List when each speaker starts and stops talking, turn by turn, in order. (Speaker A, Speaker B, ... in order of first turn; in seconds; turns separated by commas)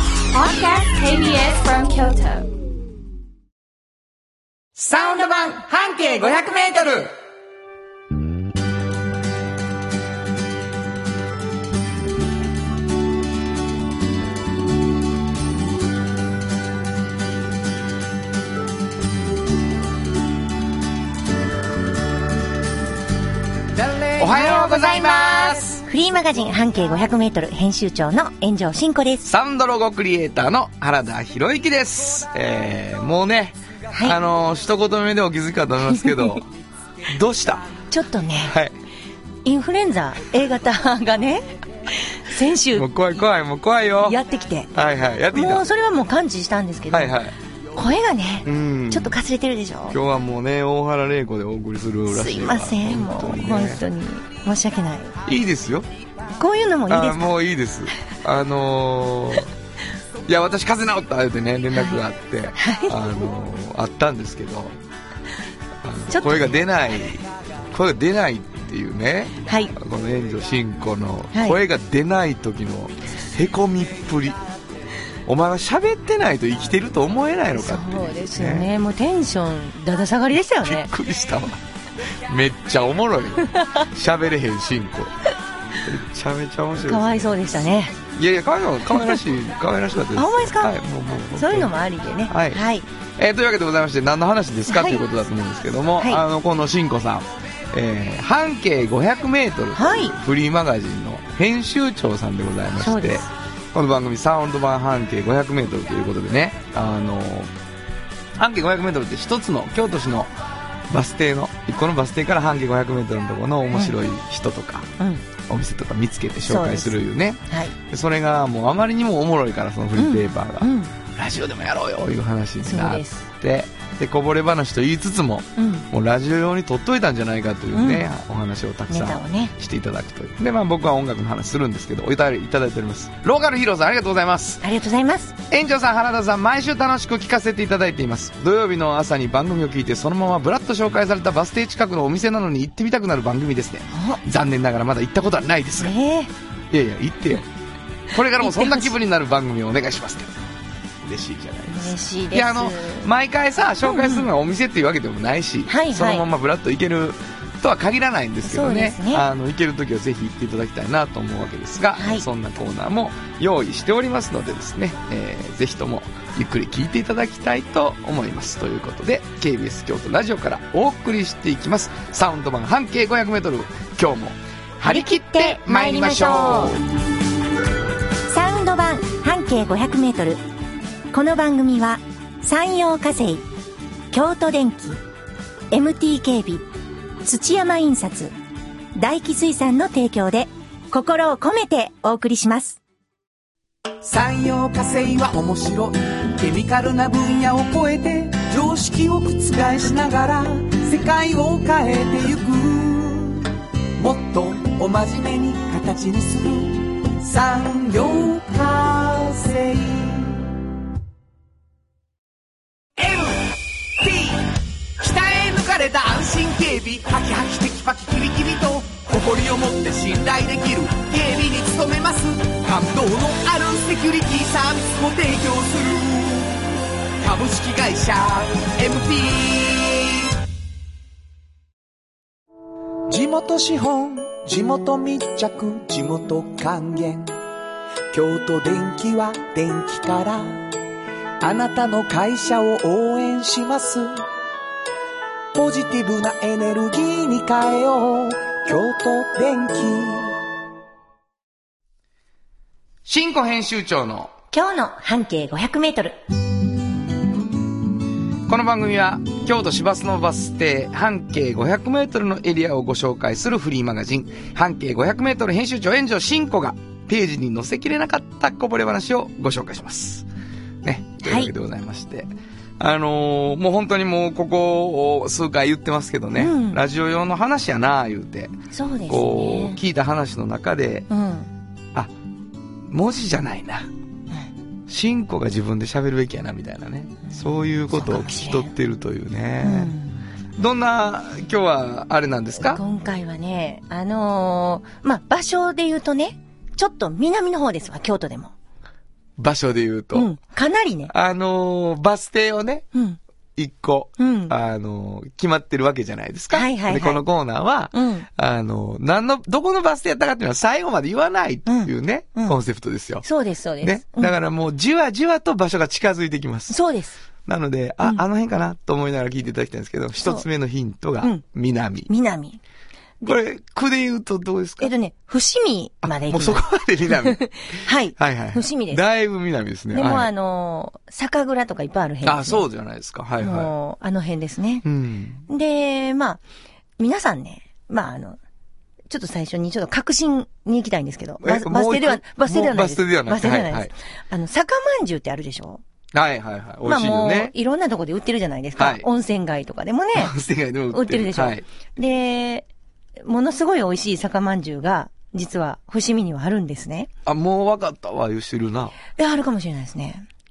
Speaker A: 0.3-2.5, Speaker B: 4.8-7.1, Speaker C: 23.8-24.3, Speaker B: 24.2-25.8, Speaker D: 24.2-29.2, Speaker B: 29.2-36.5, Speaker D: 33.9-34.2, Speaker D: 35.9-36.4, Speaker B: 37.1-37.7, Speaker D: 37.9-38.5, Speaker B: 38.4-38.8, Speaker D: 39.4-42.9, Speaker B: 42.7-44.2, Speaker D: 44.0-44.7, Speaker B: 44.7-45.6, Speaker D: 45.3-47.2, Speaker B: 46.9-47.3, Speaker D: 47.7-50.0, Speaker B: 48.5-49.2, Speaker B: 49.9-53.8, Speaker D: 52.1-55.1, Speaker B: 55.2-55.9, Speaker D: 56.4-57.3, Speaker B: 56.9-59.5, Speaker B: 60.3-64.8, Speaker D: 61.7-62.0, Speaker D: 62.5-63.0, Speaker B: 65.8-74.4, Speaker D: 66.1-66.7, Speaker D: 69.5-69.7, Speaker D: 71.3-71.6, Speaker B: 75.2-78.7, Speaker D: 77.5-80.9, Speaker B: 80.5-85.1, Speaker D: 83.4-83.8, Speaker B: 85.8-91.7, Speaker D: 86.8-88.0, Speaker D: 90.1-90.8, Speaker D: 91.3-92.9, Speaker B: 92.3-92.6, Speaker B: 93.2-107.5, Speaker D: 94.7-95.0, Speaker D: 96.0-96.2, Speaker D: 99.7-100.2, Speaker D: 102.8-103.3, Speaker B: 108.3-110.3, Speaker B: 110.9-114.9, Speaker D: 115.0-115.2, Speaker B: 115.5-134.6, Speaker D: 116.4-117.7, Speaker D: 120.0-120.9, Speaker D: 122.6-123.2, Speaker D: 125.5-125.8, Speaker D: 127.7-128.1, Speaker D: 128.9-129.5, Speaker D: 134.6-135.4, Speaker B: 135.5-145.9, Speaker D: 143.9-144.2, Speaker D: 145.8-146.3, Speaker B: 146.7-147.5, Speaker B: 148.1-150.3, Speaker D: 148.4-148.9, Speaker B: 151.0-176.8, Speaker D: 151.7-153.1, Speaker D: 153.8-154.3, Speaker D: 155.7-156.2, Speaker D: 158.4-159.2, Speaker D: 161.9-162.2, Speaker D: 174.8-176.8, Speaker D: 178.2-180.4, Speaker D: 181.1-183.4, Speaker D: 184.1-185.0, Speaker D: 185.7-186.7, Speaker D: 187.2-188.3, Speaker D: 188.9-192.8, Speaker C: 194.0-210.5, Speaker C: 213.0-230.3, Speaker C: 233.1-237.4, Speaker C: 238.1-240.7, Speaker C: 241.4-244.2, Speaker C: 245.5-250.4, Speaker B: 253.0-254.3, Speaker D: 254.5-256.2, Speaker B: 258.5-270.3, Speaker B: 270.8-278.5, Speaker D: 271.2-271.5, Speaker D: 276.4-276.8, Speaker D: 278.7-279.8, Speaker B: 279.1-281.1, Speaker D: 281.1-281.5, Speaker B: 282.9-283.9, Speaker B: 284.9-289.9, Speaker D: 287.9-288.7, Speaker D: 289.6-290.2, Speaker B: 290.6-292.8, Speaker D: 292.6-298.5, Speaker B: 299.4-300.3, Speaker D: 300.1-301.1, Speaker B: 301.1-302.9, Speaker D: 302.9-303.2, Speaker B: 303.6-313.2, Speaker D: 304.2-304.5, Speaker D: 306.5-307.2, Speaker D: 307.9-308.3, Speaker D: 311.7-312.6, Speaker D: 313.2-314.3, Speaker B: 313.8-316.8, Speaker D: 316.7-317.2, Speaker B: 317.4-322.1, Speaker D: 322.1-322.6, Speaker B: 323.2-324.9, Speaker D: 324.8-329.0, Speaker B: 326.0-330.3, Speaker D: 329.9-332.6, Speaker B: 332.2-333.7, Speaker D: 333.4-334.8, Speaker B: 334.8-335.5, Speaker D: 335.5-336.4, Speaker D: 337.0-338.4, Speaker D: 339.1-345.8, Speaker B: 341.4-343.9, Speaker B: 346.1-347.5, Speaker D: 346.8-350.3, Speaker B: 348.8-349.0, Speaker B: 350.1-351.6, Speaker D: 350.9-352.7, Speaker D: 353.2-357.1, Speaker B: 357.2-358.9, Speaker D: 359.1-360.3